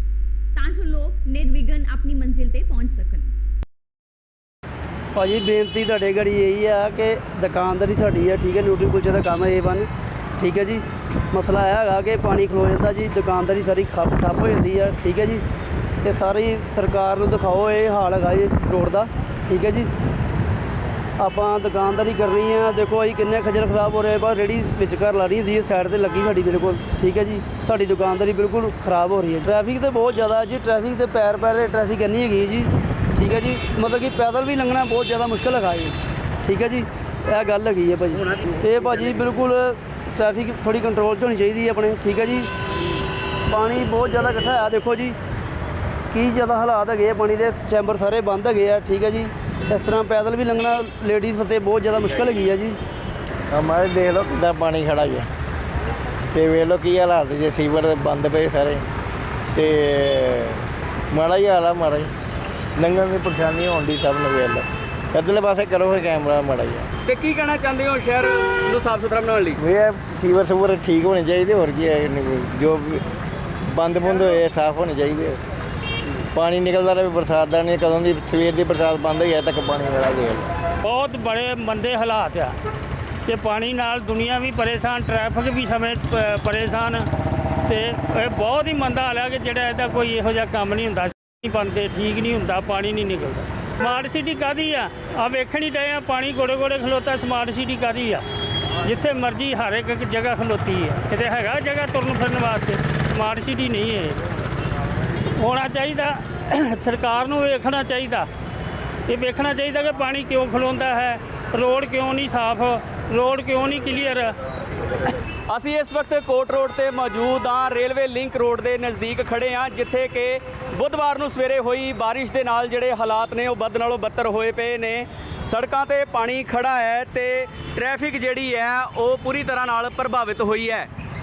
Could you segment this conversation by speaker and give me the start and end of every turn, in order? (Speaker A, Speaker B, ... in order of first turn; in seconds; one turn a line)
Speaker A: 0.6-3.3
Speaker B: 5.2-15.4
Speaker B: 16.0-19.9
Speaker B: 21.2-42.5
Speaker B: 43.5-45.2
Speaker B: 46.1-52.8
Speaker C: 53.5-55.3
Speaker C: 56.3-58.8
Speaker C: 59.5-62.1
Speaker C: 62.8-66.9
Speaker D: 67.0-69.6
Speaker C: 69.6-73.0
Speaker C: 73.7-75.4
Speaker C: 76.3-80.5
Speaker E: 80.8-82.6
Speaker E: 83.3-87.1
Speaker E: 87.7-98.2
Speaker E: 98.8-104.2
Speaker E: 105.4-108.3
Speaker E: 109.1-114.3
Speaker D: 115.5-130.9